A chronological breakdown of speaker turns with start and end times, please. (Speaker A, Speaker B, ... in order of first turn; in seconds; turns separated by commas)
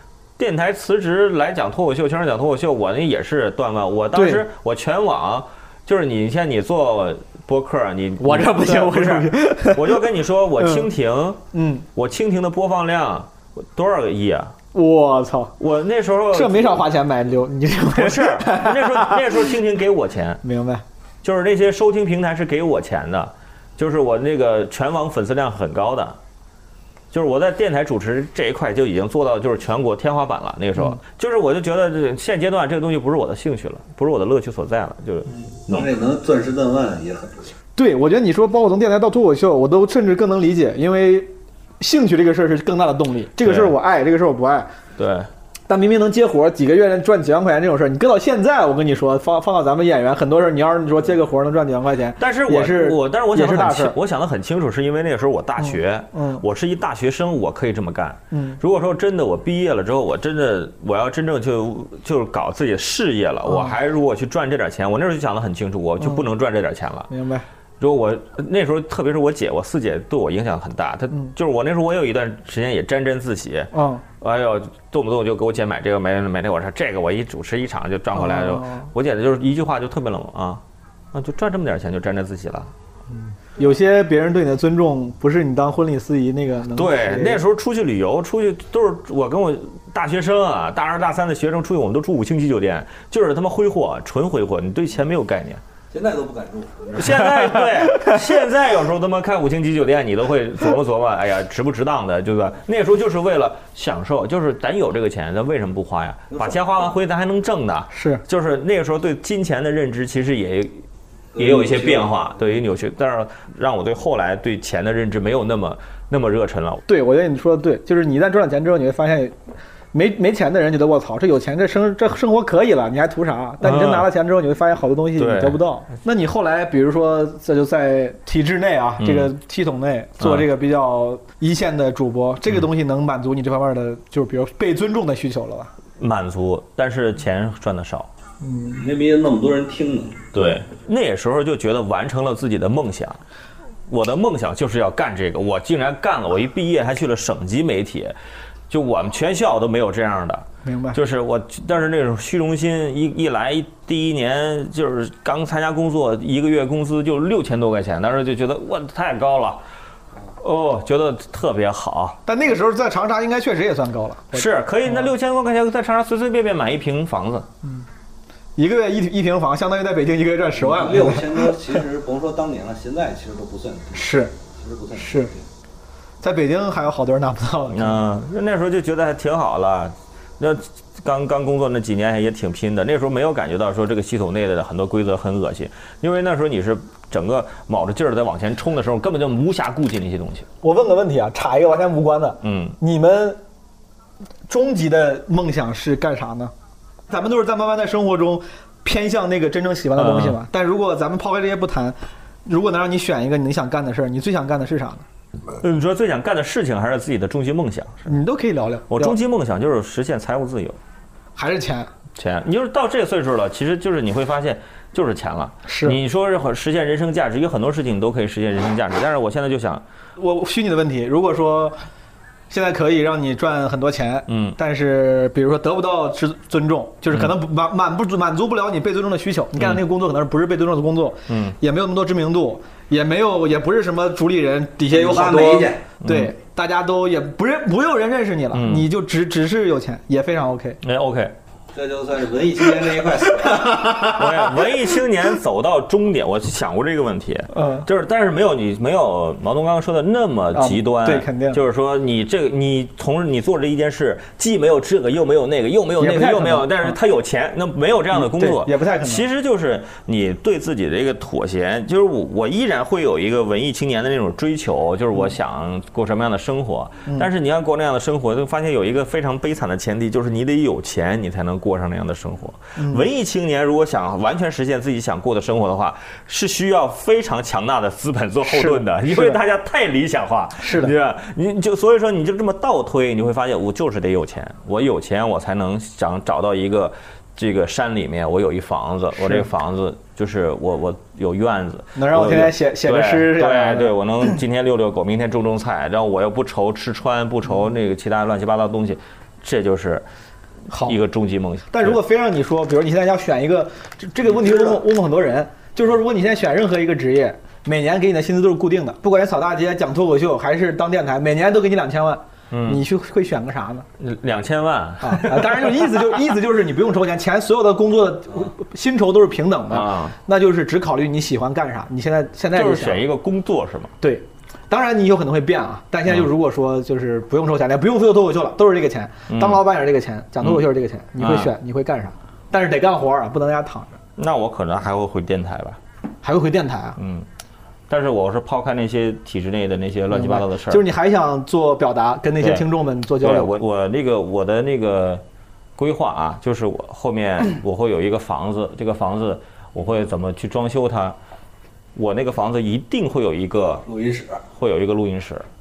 Speaker A: 0.4-11.4, Speaker B: 4.1-4.4, Speaker B: 8.2-10.0, Speaker B: 10.6-10.9, Speaker B: 11.5-11.8, Speaker A: 11.9-14.5, Speaker B: 14.7-15.5, Speaker A: 15.6-16.9, Speaker B: 16.3-19.4, Speaker A: 17.9-20.4, Speaker B: 20.4-20.8, Speaker A: 21.2-26.2, Speaker A: 27.1-35.8, Speaker C: 35.6-37.5, Speaker B: 37.8-44.7, Speaker A: 43.4-43.7, Speaker A: 45.0-45.3, Speaker B: 45.7-54.0, Speaker A: 52.2-67.1, Speaker B: 55.6-56.4, Speaker B: 58.3-58.6, Speaker B: 63.5-63.7, Speaker B: 66.0-66.2, Speaker B: 67.1-67.4, Speaker A: 67.8-80.6, Speaker B: 73.7-74.0, Speaker B: 78.1-78.9, Speaker A: 81.1-82.7, Speaker B: 83.3-87.4, Speaker A: 86.7-95.6, Speaker C: 95.9-97.3, Speaker A: 96.9-110.8, Speaker C: 106.3-106.9, Speaker B: 107.9-108.2, Speaker C: 111.3-112.4, Speaker A: 111.4-116.8, Speaker B: 116.9-119.3, Speaker B: 119.9-135.7, Speaker A: 123.6-124.1, Speaker A: 125.2-125.6, Speaker A: 129.0-129.3, Speaker A: 130.2-130.5, Speaker A: 136.0-138.1, Speaker B: 138.4-138.8, Speaker C: 138.7-140.2, Speaker A: 140.3-143.2, Speaker A: 143.9-148.1, Speaker A: 148.7-159.6, Speaker B: 150.6-151.0, Speaker A: 160.4-162.2, Speaker B: 162.2-165.1, Speaker A: 164.3-167.4, Speaker B: 168.6-171.5, Speaker C: 170.6-175.4, Speaker B: 173.9-174.3, Speaker B: 174.9-175.3, Speaker B: 176.2-178.0, Speaker A: 177.7-190.5, Speaker B: 190.6-193.4, Speaker A: 192.4-192.8, Speaker B: 194.5-196.5, Speaker B: 197.1-205.0, Speaker A: 199.9-200.4, Speaker A: 205.6-208.1, Speaker B: 208.1-209.2, Speaker A: 208.9-210.8, Speaker B: 211.3-211.9, Speaker A: 212.2-219.8, Speaker B: 215.7-216.0, Speaker B: 220.2-221.8, Speaker B: 222.5-240.8, Speaker A: 224.3-224.6, Speaker A: 229.6-229.8, Speaker A: 231.3-231.6, Speaker C: 234.9-235.8, Speaker A: 236.0-236.3, Speaker A: 238.5-238.9, Speaker A: 240.8-241.3, Speaker C: 241.7-244.1, Speaker B: 243.7-244.2, Speaker A: 244.1-300.0, Speaker B: 247.5-247.9, Speaker B: 250.5-251.6, Speaker B: 256.0-257.0, Speaker B: 258.1-259.2, Speaker B: 272.8-273.1, Speaker B: 278.4-279.4, Speaker B: 280.6-280.9, Speaker B: 289.2-289.5, Speaker B: 291.9-294.3, Speaker B: 300.7-300.9, Speaker A: 300.8-302.0, Speaker B: 301.7-313.9, Speaker A: 312.5-312.8, Speaker A: 314.0-316.1, Speaker B: 315.0-323.0, Speaker A: 319.7-320.1, Speaker A: 322.5-323.9, Speaker B: 324.0-334.0, Speaker A: 329.3-329.6, Speaker A: 331.2-331.5, Speaker A: 334.2-335.8, Speaker B: 336.2-337.0, Speaker A: 337.0-337.2, Speaker A: 337.9-340.8, Speaker B: 340.1-343.5, Speaker A: 342.4-342.6, Speaker A: 343.2-345.2, Speaker A: 345.8-351.1, Speaker A: 351.9-353.8, Speaker C: 353.8-354.4, Speaker A: 354.5-355.4